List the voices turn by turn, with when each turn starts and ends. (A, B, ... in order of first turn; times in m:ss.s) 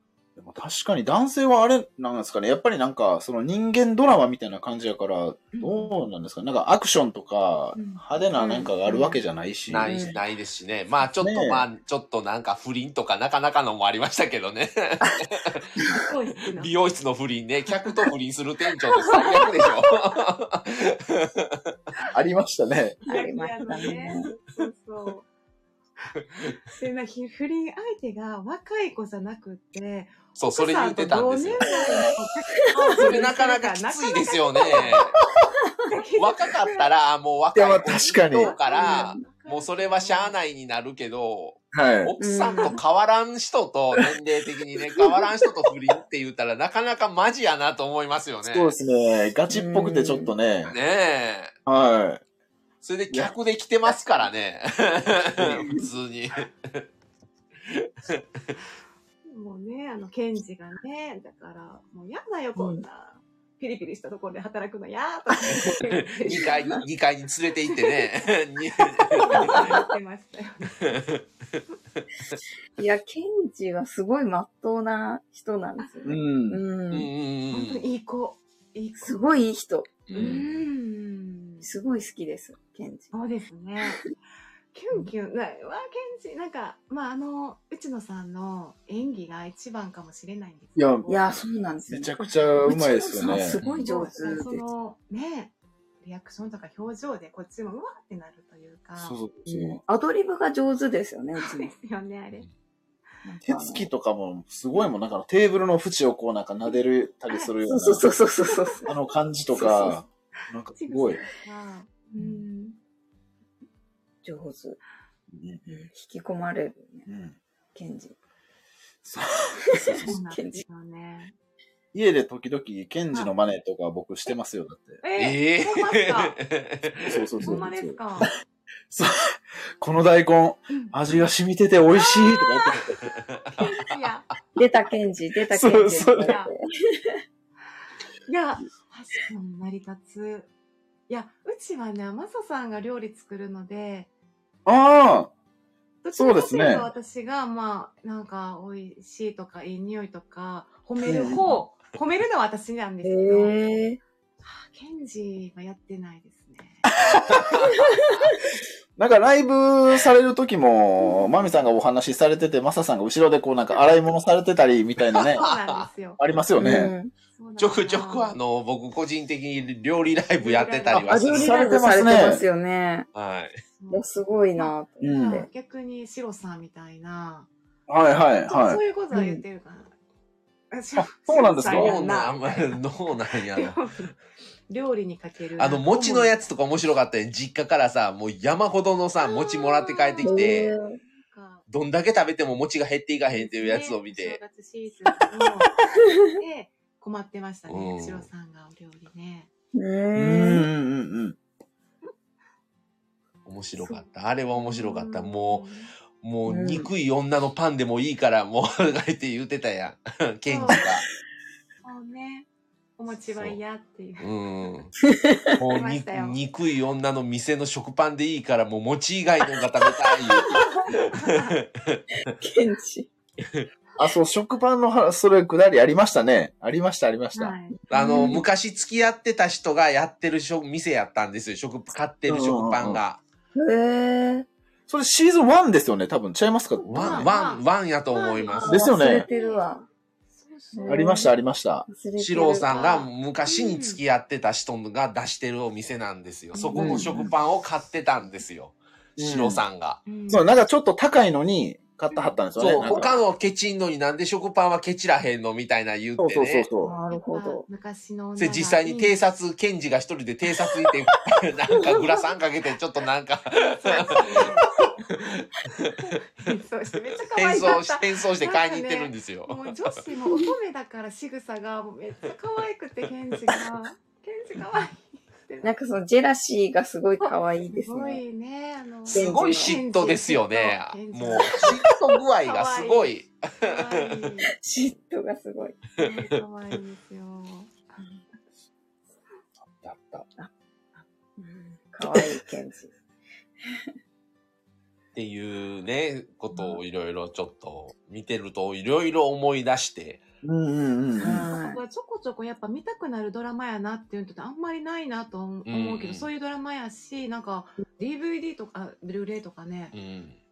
0:00.4-0:10.2 A
0:05.5-0:06.0 B
0:07.8-0:08.0 B
0:08.4-0:08.7 C
0:08.8-0:09.2 B
0:09.7-0:15.6 D
0:09.8-0:10.2 C
0:11.2-0:11.7 A
0:16.0-0:16.7 B
0:16.6-0:21.7 D
0:19.0-0:19.3 C
0:22.1-0:23.0 A
0:23.0-0:25.3 B
0:23.1-0:24.3 C
0:26.6-0:35.1 B
0:30.4-0:31.7 D
0:31.6-0:32.2 C
0:33.0-0:35.1 D
0:35.9-0:36.9 B
0:36.2-0:48.7 D
0:37.6-0:38.6 A
0:37.9-0:40.4 B
0:38.7-0:39.2 C
0:41.7-0:42.1 A
0:42.2-0:42.8 C
0:48.4-0:50.7 A
0:49.5-0:50.3 C
0:50.7-0:51.5 D
0:51.7-0:52.2 A
0:52.8-0:56.8 D
0:57.7-0:58.2 D
0:59.3-1:06.6 B
1:02.6-1:02.8 C
1:06.2-1:09.8 D
1:07.7-1:08.0 B
1:08.8-1:10.9 B
1:09.4-1:09.8 C
1:10.8-1:12.4 D
1:12.8-1:17.1 C
1:15.8-1:16.1 B
1:16.0-1:16.6 A
1:16.9-1:17.8 D
1:17.5-1:19.4 B
1:19.0-1:20.5 C
1:20.1-1:20.4 D
1:20.1-1:21.7 B
1:21.6-1:23.1 C
1:23.1-1:24.1 B
1:24.7-1:31.2 B
1:30.8-1:31.3 A
1:31.1-1:34.6 C
1:31.9-1:33.6 A
1:33.6-1:33.9 D
1:33.8-1:39.2 B
1:39.0-1:39.8 A
1:39.5-1:41.7 C
1:41.4-1:42.5 B
1:43.2-1:43.9 C
1:43.4-1:48.1 A
1:47.6-1:48.9 C
1:48.5-1:48.9 B
1:48.9-1:51.2 A
1:49.5-1:50.0 C
1:50.7-1:52.8 B
1:52.2-1:52.5 C
1:54.2-1:54.8 C
1:55.3-1:55.6 A
1:55.7-1:57.1 C
1:57.1-1:57.4 A
1:57.8-1:58.2 C
1:59.0-2:00.1 A
1:59.7-2:00.6 C
1:59.9-2:01.3 B
2:01.9-2:05.0 A
2:05.0-2:06.4 B
2:05.2-2:07.3 D
2:07.1-2:08.2 A
2:07.4-2:08.3 B
2:08.9-2:13.1 A
2:11.9-2:12.9 B
2:13.1-2:13.7 D
2:13.5-2:14.3 B
2:14.6-2:17.2 C
2:15.5-2:16.4 A
2:15.7-2:16.5 B
2:18.3-2:20.5 B
2:21.1-2:24.1 B
2:24.7-2:25.3 A
2:26.0-2:33.7 B
2:26.1-2:26.9 A
2:31.0-2:31.4 A
2:33.0-2:34.0 C
2:34.4-2:36.9 B
2:37.0-2:37.7 A
2:37.6-2:38.4 C
2:39.0-2:45.5 A
2:41.0-2:41.3 C
2:45.1-2:45.8 D
2:45.2-2:46.2 B
2:46.2-2:46.9 A
2:46.6-2:47.1 C
2:47.4-2:48.4 B
2:47.6-2:52.2 D
2:50.4-2:52.2 B
2:50.9-2:52.4 A
2:51.1-2:53.1 C
2:53.2-2:53.6 D
2:53.7-2:57.5 B
2:53.9-2:55.5 C
2:55.0-2:55.4 A
2:57.9-2:58.8 A
2:58.5-2:59.9 B
2:59.1-2:59.4 C
3:00.7-3:04.1 B
3:01.0-3:02.0 A
3:01.7-3:03.8 D
3:04.7-3:06.5 B
3:05.6-3:10.7 D
3:09.2-3:11.7 B
3:10.2-3:11.0 C
3:11.7-3:14.4 D
3:13.3-3:15.8 B
3:16.3-3:19.5 B
3:17.7-3:18.3 D
3:19.7-3:20.7 C
3:20.1-3:21.4 A
3:23.5-3:25.7 D
3:23.8-3:25.9 B
3:26.2-3:31.1 D
3:26.5-3:26.9 C
3:30.5-3:30.8 B
3:31.8-3:34.3 B
3:34.2-3:34.9 D
3:35.1-3:35.6 C
3:35.6-3:42.0 D
3:35.7-3:36.4 B
3:40.4-3:40.6 C
3:40.5-3:41.6 B
3:42.3-3:43.1 C
3:44.0-3:47.6 A
3:47.3-3:48.4 B
3:47.9-3:48.4 C
3:47.9-3:53.2 D
3:52.3-3:53.0 A
3:53.6-3:54.5 C
3:54.9-3:57.3 A
3:56.8-4:01.2 B
3:56.9-3:58.7 D
3:58.6-3:59.8 C
3:58.7-3:59.3 A
4:00.7-4:01.3 C
4:00.9-4:01.9 A
4:01.9-4:02.7 C
4:02.2-4:10.0 D
4:02.7-4:04.0 B
4:06.5-4:07.2 B
4:06.8-4:07.3 A
4:09.2-4:09.6 A
4:10.1-4:10.6 B
4:10.3-4:13.2 A
4:12.1-4:13.2 B
4:12.6-4:16.7 D
4:16.2-4:16.9 A
4:16.8-4:17.7 C
4:17.1-4:19.2 B
4:18.4-4:26.0 D
4:21.8-4:22.2 C
4:23.6-4:24.7 B
4:25.9-4:35.8 B
4:27.3-4:29.7 D
4:35.6-4:38.2 C
4:37.2-4:41.8 B
4:39.1-4:39.8 C
4:39.1-4:43.9 D
4:42.4-4:44.5 B
4:44.6-4:45.8 C
4:46.0-4:48.0 B
4:46.0-4:46.4 D
4:49.8-4:50.2 A
4:51.4-4:52.9 C
4:55.2-5:00.2 D
4:56.5-4:56.8 B
5:00.4-5:01.5 A
5:01.2-5:10.0 B
5:01.2-5:01.8 C
5:05.7-5:06.3 D
5:09.9-5:10.4 D